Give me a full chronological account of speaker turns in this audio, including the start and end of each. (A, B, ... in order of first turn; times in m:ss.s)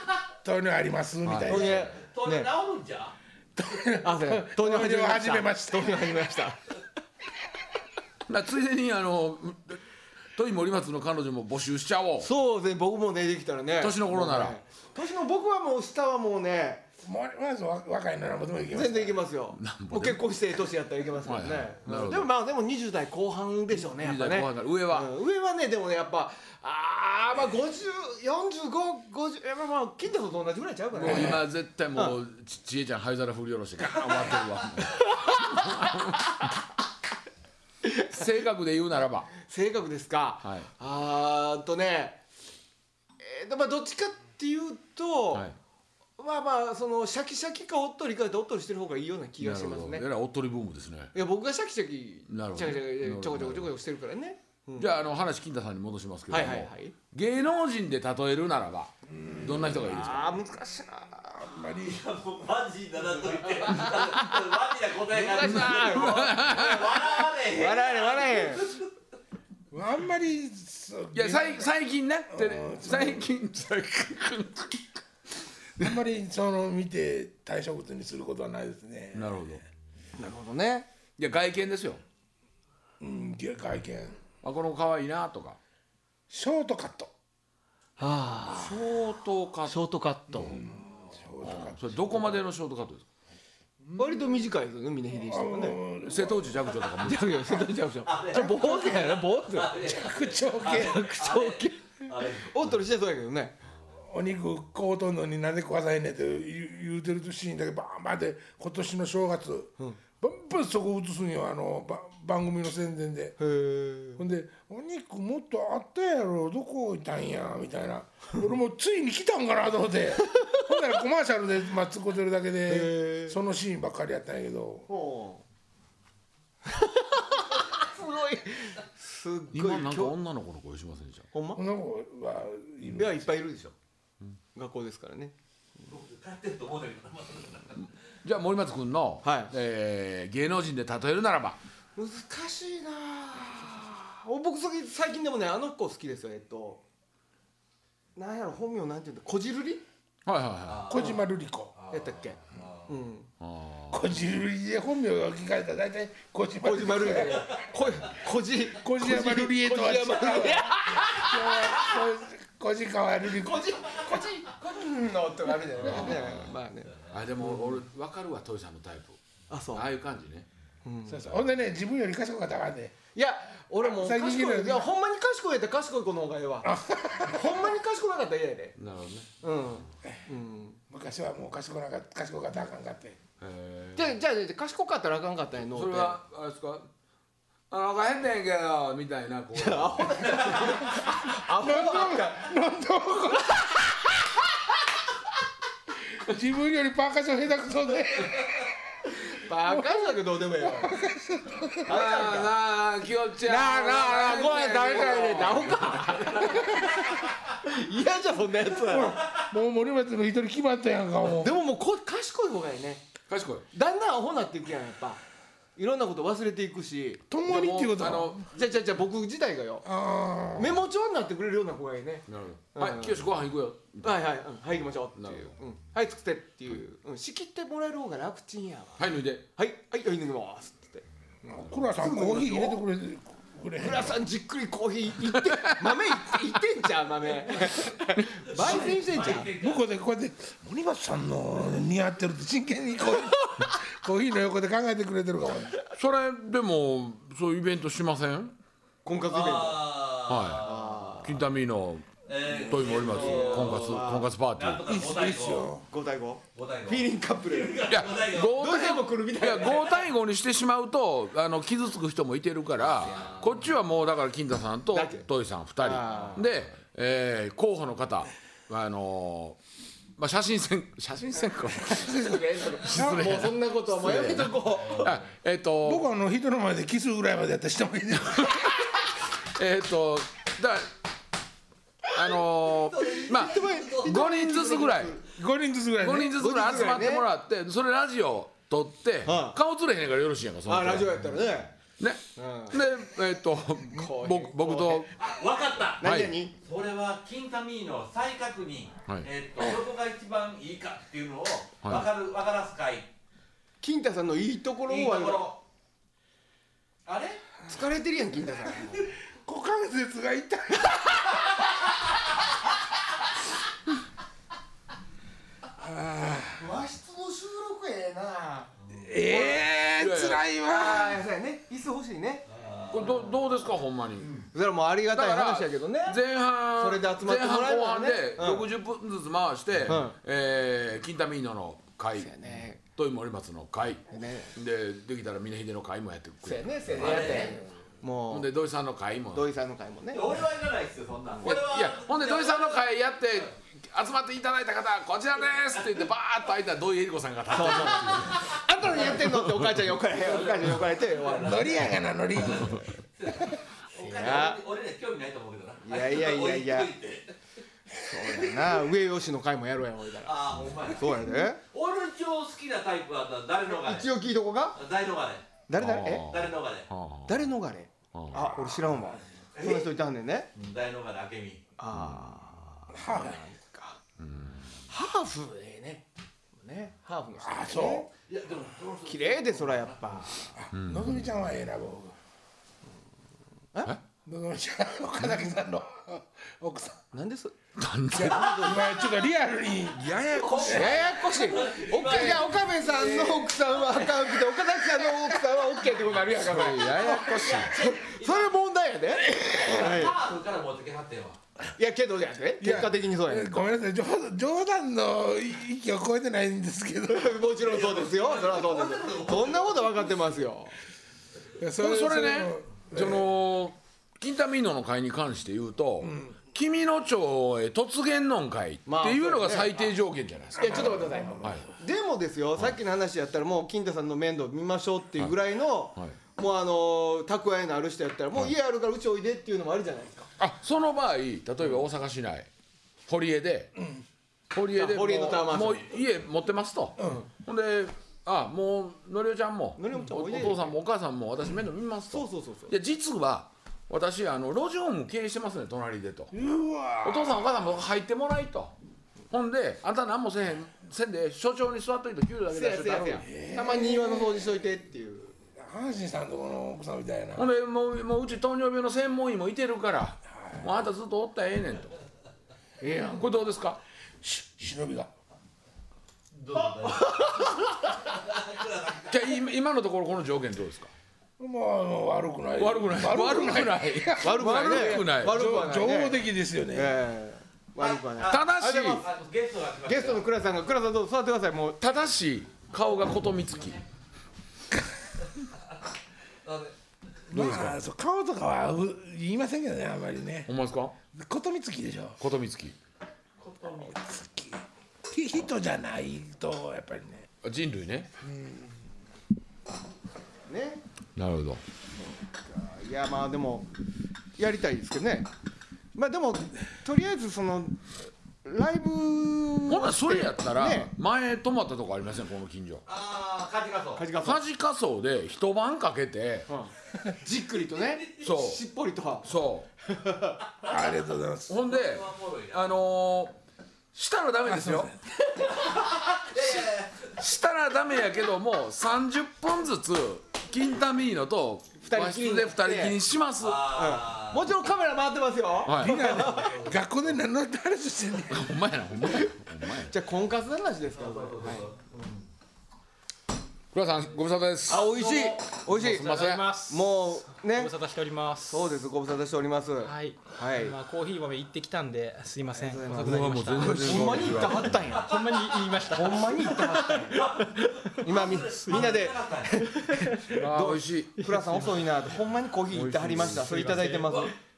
0:00.4-0:01.9 A
0:01.2-0:01.8 B
0:01.4-0:02.5 C
0:01.9-0:03.1 D
0:03.6-0:06.5 A
0:04.0-0:06.6 C
0:08.3-0:09.8 B
0:10.3-0:12.3 B
0:12.2-0:16.9 C
0:13.8-0:14.6 B
0:17.0-0:19.2 A
0:18.7-0:32.2 C
0:19.5-0:20.3 B
0:21.2-0:22.3 B
0:23.7-0:25.1 B
0:30.9-0:36.2 B
0:31.1-0:31.3 A
0:35.0-0:36.0 C
0:37.8-0:38.2 C
0:38.1-0:39.3 B
0:39.4-0:42.2 C
0:40.4-0:40.7 B
0:43.2-0:45.5 C
0:46.2-0:50.0 C
0:49.4-0:51.1 B
0:51.1-0:55.0 C
0:52.3-0:53.7 B
0:54.8-1:00.4 B
0:56.3-0:56.9 C
0:59.1-1:00.0 A
0:59.7-1:01.4 C
1:01.4-1:02.0 A
1:01.8-1:08.9 D
1:03.6-1:04.2 C
1:05.1-1:08.8 C
1:05.3-1:06.9 B
1:09.7-1:11.7 A
1:11.1-1:14.9 B
1:12.3-1:13.3 A
1:15.8-1:19.6 A
1:19.1-1:19.6 B
1:20.2-1:20.9 C
1:21.2-1:22.0 B
1:23.0-1:24.2 A
1:24.4-1:25.6 B
1:26.3-1:27.1 A
1:28.0-1:28.9 C
1:28.5-1:29.8 B
1:29.6-1:30.6 C
1:30.4-1:32.4 A
1:31.4-1:33.0 B
1:33.8-1:34.4 A
1:34.0-1:35.8 C
1:35.2-1:36.8 A
1:36.0-1:37.6 B
1:37.0-1:39.8 C
1:38.0-1:42.6 D
1:39.8-1:41.1 A
1:40.6-1:43.6 C
1:44.0-1:53.4 A
1:53.4-1:54.2 C
1:54.2-2:04.9 A
2:00.3-2:00.6 C
2:02.7-2:03.4 C
2:04.9-2:05.4 C
2:06.6-2:10.1 C
2:09.5-2:11.3 B
2:11.3-2:11.6 C
2:11.6-2:13.3 A
2:12.9-2:13.7 C
2:14.5-2:15.3 C
2:15.9-2:17.9 D
2:18.2-2:21.6 B
2:19.2-2:19.5 C
2:22.0-2:26.8 C
2:28.2-2:29.8 C
2:30.2-2:30.9 B
2:30.7-2:31.2 D
2:30.9-2:31.7 A
2:30.9-2:31.2 C
2:31.7-2:32.9 D
2:31.9-2:33.3 C
2:33.4-2:34.0 B
2:33.9-2:37.5 A
2:36.6-2:41.5 C
2:38.8-2:43.7 A
2:43.3-2:47.8 C
2:45.8-2:46.5 B
2:47.1-2:49.2 B
2:49.5-2:49.9 C
2:49.7-2:50.5 B
2:50.8-2:51.3 C
2:51.0-2:53.0 A
2:53.1-2:58.8 C
2:53.8-2:54.9 A
2:56.6-2:57.6 A
2:58.8-2:59.3 B
2:59.4-3:00.8 C
3:00.9-3:03.2 A
3:03.4-3:04.2 B
3:04.0-3:06.2 C
3:05.6-3:06.9 B
3:07.7-3:10.6 B
3:09.5-3:12.5 C
3:11.6-3:14.3 A
3:16.1-3:18.8 A
3:19.3-3:21.0 C
3:19.7-3:21.9 A
3:21.8-3:22.5 C
3:21.9-3:26.2 B
3:23.4-3:29.2 C
3:23.6-3:25.4 A
3:28.8-3:31.5 A
3:31.2-3:33.1 C
3:33.3-3:33.6 B
3:33.7-3:35.2 C
3:35.8-3:37.2 C
3:37.3-3:38.4 A
3:37.4-3:38.5 B
3:38.5-3:39.9 C
3:39.8-3:40.8 A
3:40.5-3:43.2 C
3:42.3-3:44.3 B
3:44.0-3:52.8 C
3:45.2-3:45.5 B
3:49.0-3:49.4 B
3:51.5-3:54.2 A
3:53.8-3:59.5 C
3:58.5-3:59.8 D
3:58.7-4:05.8 A
4:05.9-4:08.6 B
4:09.0-4:11.4 C
4:09.3-4:11.1 D
4:10.3-4:10.7 B
4:11.2-4:14.9 B
4:12.2-4:15.7 D
4:12.5-4:14.3 C
4:14.8-4:15.8 A
4:15.9-4:20.0 C
4:16.5-4:18.6 D
4:17.9-4:29.6 B
4:23.0-4:23.5 D
4:23.2-4:23.5 C
4:24.9-4:25.2 C
4:25.8-4:26.5 C
4:30.2-4:36.0 B
4:31.9-4:35.2 C
4:34.8-4:35.2 D
4:35.8-4:38.9 A
4:38.4-4:40.9 B
4:42.1-4:45.2 B
4:42.8-4:44.2 D
4:43.1-4:45.2 C
4:45.3-4:46.4 A
4:46.0-4:51.2 B
4:46.3-4:47.2 C
4:49.2-4:49.6 C
4:50.6-4:51.7 C
4:52.0-4:55.1 B
4:52.4-4:52.8 C
4:53.9-4:55.1 C
4:55.2-4:56.0 D
4:56.0-4:56.5 C
4:56.0-4:56.4 B
4:56.6-5:03.1 D
5:01.8-5:02.1 B
5:03.8-5:05.5 C
5:04.9-5:05.6 D
5:07.0-5:07.4 D
5:07.6-5:09.1 C
5:09.4-5:11.5 A
5:15.8-5:16.6 A
5:16.5-5:19.6 C
5:18.8-5:19.1 D
5:19.0-5:21.2 A
5:20.0-5:20.4 B
5:20.6-5:22.4 C
5:22.5-5:23.4 D
5:22.9-5:24.4 B
5:24.5-5:26.2 C
5:25.1-5:37.4 B
5:26.7-5:28.7 C
5:29.8-5:30.2 C
5:32.1-5:32.8 C
5:34.1-5:34.5 C
5:36.4-5:38.5 C
5:36.9-5:37.6 D
5:38.3-5:39.5 B
5:39.3-5:40.3 C
5:40.1-5:42.8 D
5:41.3-5:41.6 C
5:41.4-5:49.7 B
5:47.5-5:51.8 C
5:50.1-5:57.3 D
5:51.4-5:52.8 A
5:53.9-5:54.6 C
5:55.8-5:56.9 C
5:58.0-6:01.6 C
5:58.3-5:58.7 D
6:00.2-6:04.1 D
6:03.6-6:04.8 C
6:04.7-6:05.6 D
6:05.7-6:06.3 C
6:05.7-6:07.5 B
6:06.2-6:06.9 D
6:07.3-6:10.5 C
6:08.1-6:08.8 B
6:09.5-6:10.0 D
6:10.5-6:11.6 D
6:11.8-6:14.0 C
6:11.9-6:12.4 B
6:12.9-6:13.4 A
6:14.2-6:14.7 B
6:14.9-6:18.1 C
6:17.4-6:18.1 A
6:18.3-6:20.3 D
6:19.0-6:20.6 C
6:20.6-6:22.2 A
6:20.7-6:21.3 B
6:24.2-6:27.0 A
6:27.1-6:27.5 C
6:27.8-6:28.7 B
6:28.1-6:31.0 A
6:28.2-6:28.7 C
6:28.4-6:28.8 D
6:30.0-6:34.0 D
6:30.6-6:40.2 C
6:36.2-6:37.8 B
6:37.2-6:38.5 D
6:39.4-6:39.8 A
6:39.6-6:41.4 D
6:41.8-6:43.6 C
6:42.6-6:47.5 A
6:47.1-6:50.8 C
6:47.6-6:50.2 D
6:51.6-6:53.3 A
6:51.8-7:01.7 B
6:56.0-6:56.3 A
6:58.8-6:59.9 C
7:00.6-7:01.6 A
7:00.6-7:10.3 C
7:10.4-7:12.5 B
7:13.1-7:13.7 B
7:14.5-7:26.4 B
7:14.7-7:16.0 C
7:17.0-7:17.3 C
7:19.8-7:20.7 C
7:22.1-7:22.7 C
7:26.3-7:27.6 A
7:27.0-7:28.7 B
7:29.3-7:33.3 B
7:32.5-7:35.3 C
7:33.2-7:34.5 A
7:35.6-7:37.5 A
7:37.4-7:42.0 B
7:42.8-7:43.3 C
7:43.2-7:43.8 B
7:44.2-7:45.1 A
7:46.3-7:47.5 D
7:48.1-7:49.3 D
7:49.1-7:50.9 B
7:51.4-7:57.0 A
7:52.6-7:55.4 B
7:54.2-7:56.2 C
7:56.7-7:59.0 C
7:57.8-8:00.3 D
7:58.2-7:59.0 B
7:59.8-8:01.8 C
8:01.8-8:03.8 B
8:06.4-8:06.7 D
8:07.3-8:07.8 B
8:07.3-8:10.5 A
8:10.5-8:10.9 B
8:11.1-8:12.2 A
8:12.2-8:12.8 B
8:13.4-8:13.9 D
8:13.6-8:17.3 A
8:17.4-8:18.1 B
8:18.2-8:18.7 A
8:20.5-8:20.8 C
8:21.2-8:21.6 B
8:22.3-8:23.7 C
8:24.4-8:25.3 C
8:25.9-8:27.9 C
8:28.4-8:30.9 C
8:29.7-8:32.8 B
8:32.8-8:34.1 D
8:34.0-8:34.4 C
8:34.2-8:36.5 B
8:36.5-8:39.3 C
8:38.2-8:38.6 B
8:39.2-8:39.7 B
8:39.8-8:40.4 C
8:40.6-8:41.5 A
8:41.5-8:43.4 B
8:41.6-8:42.8 D
8:43.9-8:44.9 B
8:44.4-8:45.0 A
8:45.4-8:47.2 D
8:47.1-8:53.7 B
8:51.8-8:53.0 C
8:53.4-8:54.5 D
8:53.7-8:56.6 C
8:55.6-8:56.2 B
8:55.8-8:58.5 A
8:56.0-8:56.8 D
8:58.3-9:00.0 B
8:59.1-9:01.7 C
9:00.9-9:02.2 D
9:03.7-9:06.5 B
9:04.7-9:07.7 C
9:04.9-9:06.9 E
9:07.4-9:08.7 E
9:08.5-9:10.8 C
9:09.8-9:18.0 E
9:12.5-9:15.3 C
9:13.0-9:14.8 B
9:14.8-9:15.9 D
9:15.9-9:17.2 C
9:16.7-9:19.6 D
9:18.0-9:24.3 C
9:18.7-9:19.0 E
9:19.6-9:20.4 E
9:20.3-9:21.2 B
9:21.2-9:21.8 E
9:22.7-9:23.8 B
9:23.2-9:24.3 E